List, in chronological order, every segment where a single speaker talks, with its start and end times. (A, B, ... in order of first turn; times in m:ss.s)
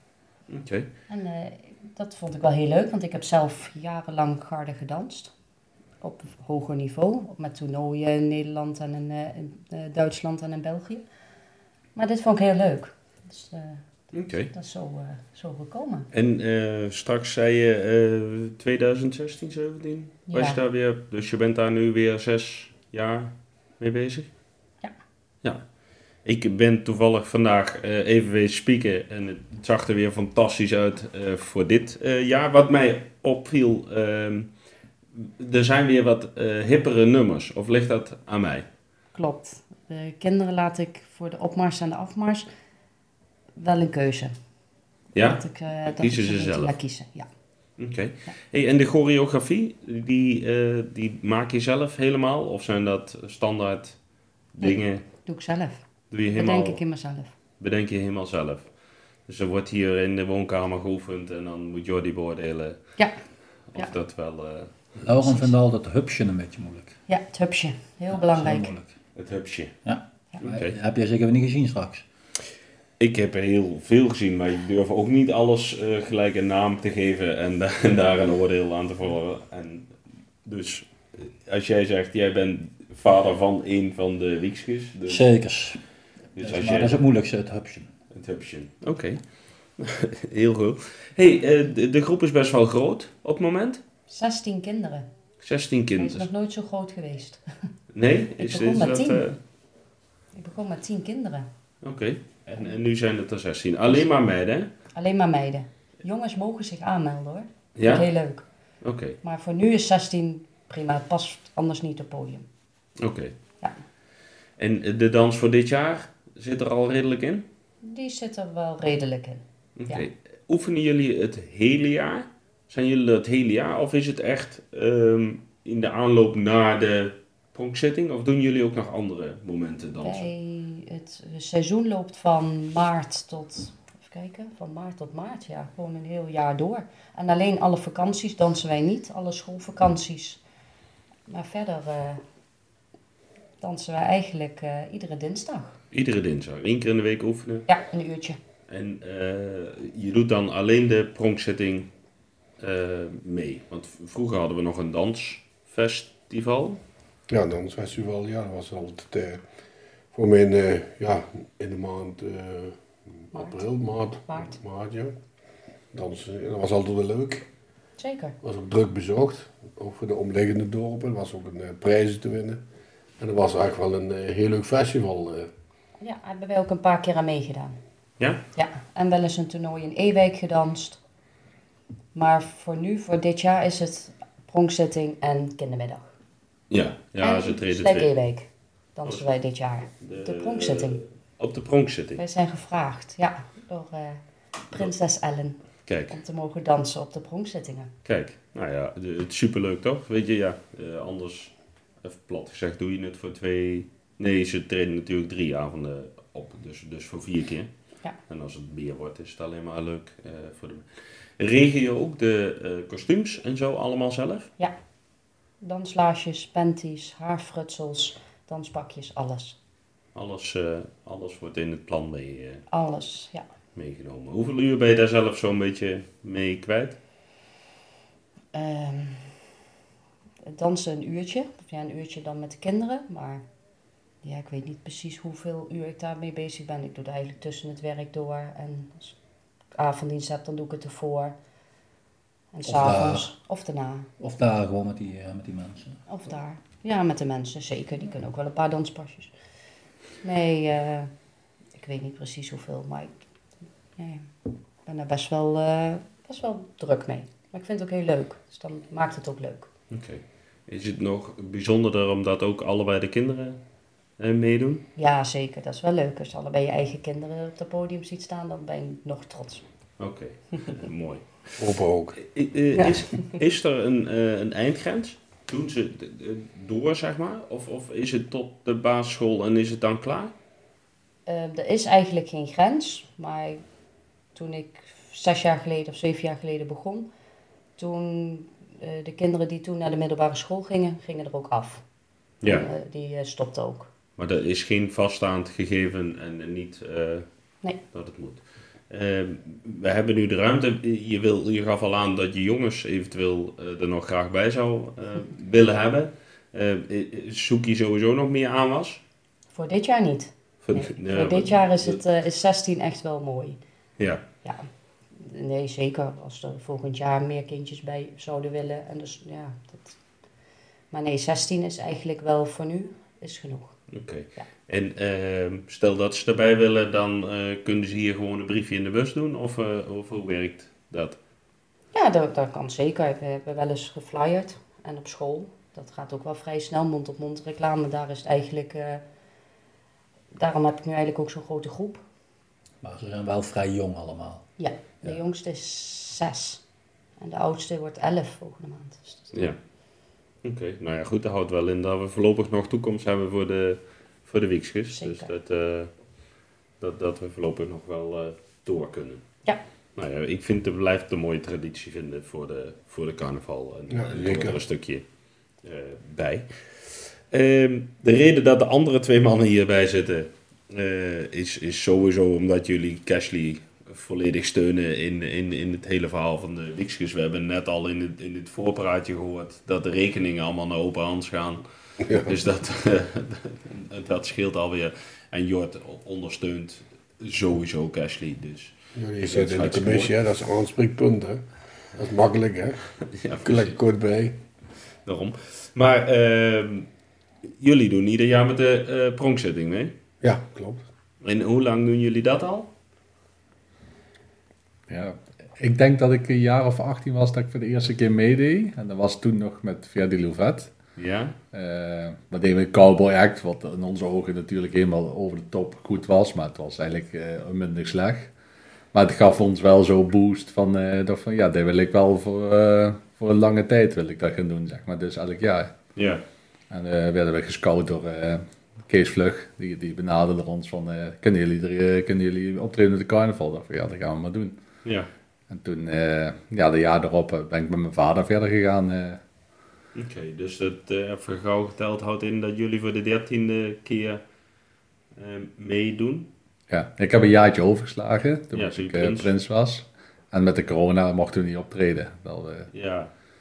0:00.5-0:00.9 A
0:01.1-0:05.3 B
0:06.0-0:11.0 B
0:11.9-0:13.8 B
0:14.1-0:14.5 A
0:14.5-0:16.1 B
0:16.1-0:24.3 A
0:20.3-0:20.6 B
0:26.2-0:34.5 A
0:35.2-0:38.6 A
0:39.1-0:42.5 B
0:43.6-0:44.3 B
0:45.1-0:46.7 A
0:45.2-0:47.3 B
0:47.8-0:54.0 A
0:54.5-0:55.0 A
0:54.6-0:55.8 B
0:56.1-0:56.8 A
0:56.3-0:57.3 B
0:57.6-0:58.7 A
0:59.3-1:02.8 A
1:03.7-1:04.7 A
1:05.0-1:06.9 C
1:05.2-1:05.5 B
1:07.1-1:08.7 B
1:08.1-1:08.9 C
1:09.2-1:09.7 A
1:09.8-1:12.0 C
1:10.4-1:10.8 A
1:13.0-1:19.9 A
1:20.4-1:25.2 A
1:25.1-1:25.8 C
1:26.4-1:27.0 A
1:26.4-1:27.9 C
1:28.1-1:29.2 A
1:29.8-1:33.8 A
1:34.1-1:35.1 B
1:35.4-1:36.3 A
1:36.0-1:37.4 B
1:37.9-1:39.4 A
1:38.4-1:39.4 B
1:40.3-1:41.5 B
1:41.8-1:44.7 A
1:44.9-1:48.4 B
1:47.8-1:48.1 A
1:48.8-1:49.2 A
1:49.2-1:52.4 B
1:53.0-1:53.3 A
1:54.6-1:57.4 A
1:57.8-2:00.0 B
1:59.8-2:10.3 A
2:10.0-2:20.4 B
2:21.3-2:22.2 B
2:23.6-2:25.8 B
2:25.9-2:27.7 A
2:27.7-2:28.4 B
2:28.7-2:31.9 A
2:32.6-2:36.8 A
2:37.3-2:39.4 D
2:40.1-2:42.8 D
2:43.3-2:45.1 D
2:43.3-2:43.7 B
2:44.2-2:44.6 B
2:45.9-2:47.4 D
2:48.0-2:48.4 B
2:48.4-2:52.6 D
2:53.2-2:55.5 D
2:56.0-2:57.8 B
2:58.5-3:01.0 B
3:02.1-3:06.1 B
3:06.7-3:08.1 A
3:07.2-3:11.0 B
3:10.0-3:12.2 A
3:12.2-3:14.2 B
3:14.7-3:17.9 B
3:15.9-3:16.1 A
3:18.0-3:27.7 A
3:28.3-3:30.8 A
3:31.4-3:34.5 A
3:35.6-3:39.6 B
3:40.1-3:42.6 A
3:42.7-3:43.5 B
3:43.7-3:47.0 A
3:48.5-3:49.3 B
3:50.4-3:53.4 B
3:54.2-3:59.2 B
3:59.7-4:01.3 B
4:02.5-4:04.1 B
4:02.6-4:03.3 C
4:04.2-4:06.0 C
4:06.1-4:09.3 B
4:10.2-4:11.1 B
4:11.7-4:13.2 B
4:14.0-4:14.3 B
4:14.8-4:19.7 B
4:19.9-4:23.6 A
4:24.2-4:24.8 A
4:25.0-4:29.6 B
4:30.0-4:31.2 A
4:31.6-4:32.2 D
4:32.2-4:40.3 A
4:41.2-4:43.6 B
4:44.3-4:47.1 B
4:47.8-4:51.8 B
4:52.4-4:52.7 A
4:52.4-4:53.9 B
4:54.2-4:57.2 A
4:57.9-5:09.0 A
5:09.5-5:13.6 B
5:10.6-5:12.0 A
5:14.0-5:14.2 A
5:14.4-5:20.0 B
5:20.9-5:23.8 B
5:23.9-5:31.2 A
5:31.9-5:39.0 B
5:40.3-5:42.0 B
5:42.8-5:44.4 C
5:44.6-5:46.6 B
5:47.2-5:49.5 B
5:50.4-5:55.9 A
5:54.9-5:55.3 B
5:56.8-5:59.2 A
6:00.0-6:05.0 A
6:03.9-6:04.6 D
6:05.6-6:06.5 A
6:07.3-6:30.1 A
6:22.0-6:22.3 D
6:29.0-6:31.4 D
6:32.0-6:32.8 D
6:33.1-6:33.8 A
6:33.4-6:34.4 D
6:35.0-6:36.9 A
6:37.5-6:39.9 A
6:40.2-6:40.8 D
6:41.2-6:42.7 A
6:44.9-6:50.7 E
6:51.0-6:51.3 A
6:51.5-6:58.3 E
6:58.9-7:05.7 E
7:06.0-7:06.2 A
7:06.7-7:14.6 E
7:15.5-7:19.2 E
7:19.9-7:24.2 A
7:25.2-7:26.3 A
7:26.7-7:32.7 E
7:28.5-7:29.3 A
7:32.7-7:33.1 A